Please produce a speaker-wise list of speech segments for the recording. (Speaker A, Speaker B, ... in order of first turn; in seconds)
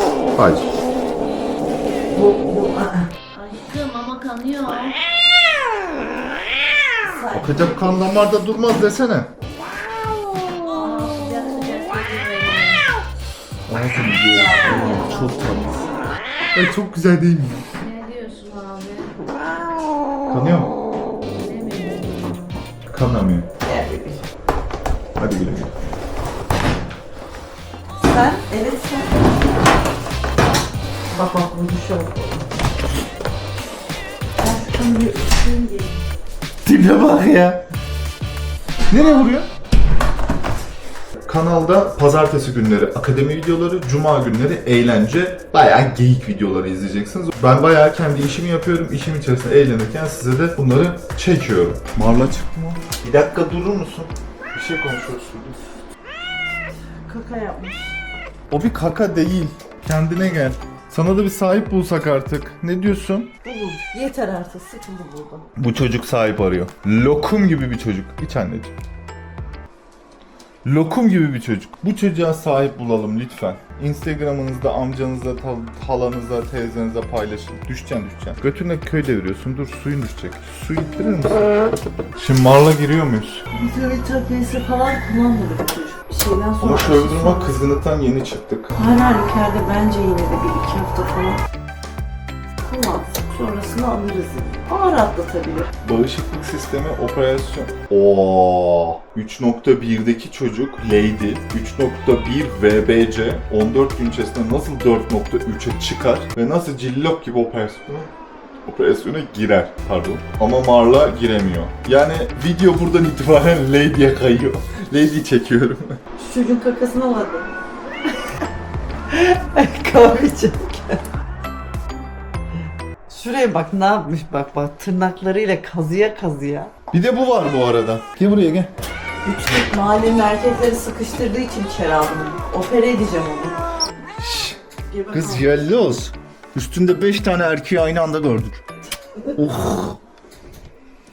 Speaker A: 0.3-0.7, 7.3-9.3, 13.7-15.9, 16.5-17.7, 20.3-20.7, 22.9-23.5, 25.2-25.7, 36.6-37.6, 38.9-39.5, 41.2-55.6, 58.5-63.3, 65.6-68.7, 70.6-81.5, 82.2-83.5, 86.6-88.8, 95.8-108.1, 108.6-116.0, 126.9-128.7, 134.2-134.6, 135.1-138.7, 139.3-140.0
Speaker B: 2.1-3.1, 7.0-8.3, 14.4-15.4, 23.6-24.2, 28.0-29.3, 31.1-32.5, 34.4-36.0, 57.1-58.0, 63.4-65.5, 83.5-87.5, 88.8-91.4, 92.7-95.7, 116.2-117.5, 119.1-121.0, 123.1-126.7, 129.2-133.6, 134.9-135.6
Speaker C: 3.3-5.0, 10.7-12.8, 14.3-15.8, 17.7-19.1, 21.3-22.5